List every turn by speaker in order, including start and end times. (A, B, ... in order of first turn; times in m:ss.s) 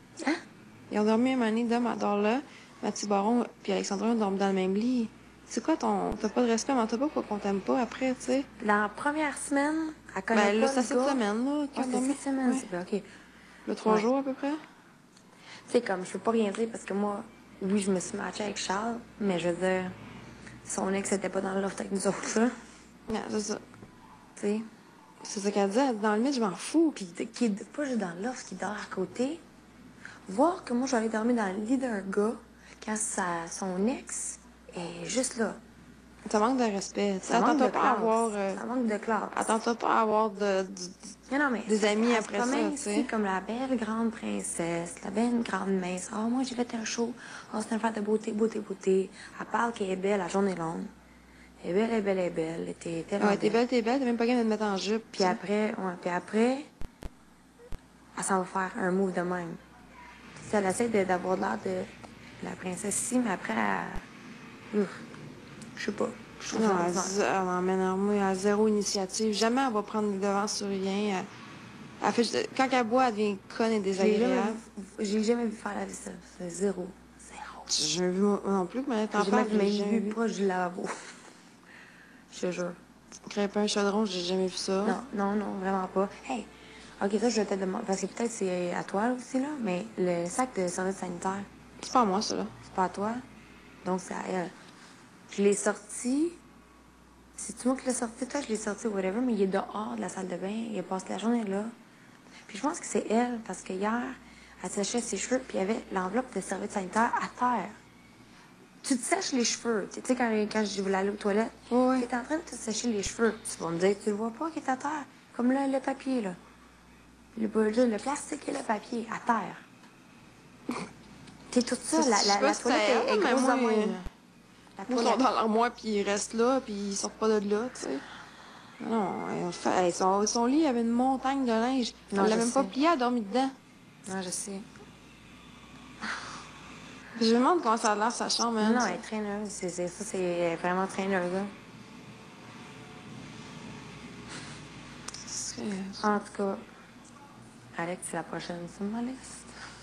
0:00.9-0:08.5 A
0:08.6-0:11.2 B
0:10.3-0:12.6 A
0:11.8-0:13.0 B
0:13.6-0:14.6 A
0:15.7-0:19.9 B
0:20.6-0:22.5 B
0:23.1-0:23.6 A
0:24.4-0:24.7 B
0:25.2-0:27.0 A
0:26.9-0:29.4 B
0:30.2-0:35.6 B
0:36.3-0:38.6 A
0:37.2-0:39.4 B
0:39.3-0:41.2 A
0:41.3-0:50.9 B
0:41.7-0:43.1 A
0:51.6-0:53.6 B
0:53.2-0:55.4 A
0:55.1-0:56.7 B
0:58.2-0:59.6 B
1:00.4-1:01.9 B
1:02.4-1:04.0 B
1:04.7-1:05.0 B
1:05.8-1:07.1 B
1:06.5-1:11.3 A
1:12.0-1:14.6 A
1:13.9-1:17.7 B
1:17.7-1:20.1 A
1:19.1-1:21.1 B
1:22.3-1:22.8 B
1:23.3-1:25.0 A
1:24.8-1:31.5 B
1:31.8-1:32.5 A
1:32.6-1:33.2 B
1:33.8-1:34.5 B
1:35.3-1:36.4 B
1:37.4-1:41.7 B
1:42.4-1:47.8 B
1:48.8-1:56.4 B
1:51.7-1:52.1 A
1:57.3-1:59.6 B
2:01.5-2:04.0 B
2:01.9-2:04.0 A
2:04.8-2:05.2 B
2:04.9-2:08.0 A
2:08.8-2:13.5 A
2:12.1-2:12.8 B
2:14.0-2:14.6 B
2:17.1-2:19.0 A
2:18.6-2:21.5 B
2:25.2-2:26.1 A
2:26.0-2:26.6 B
2:27.8-2:29.5 B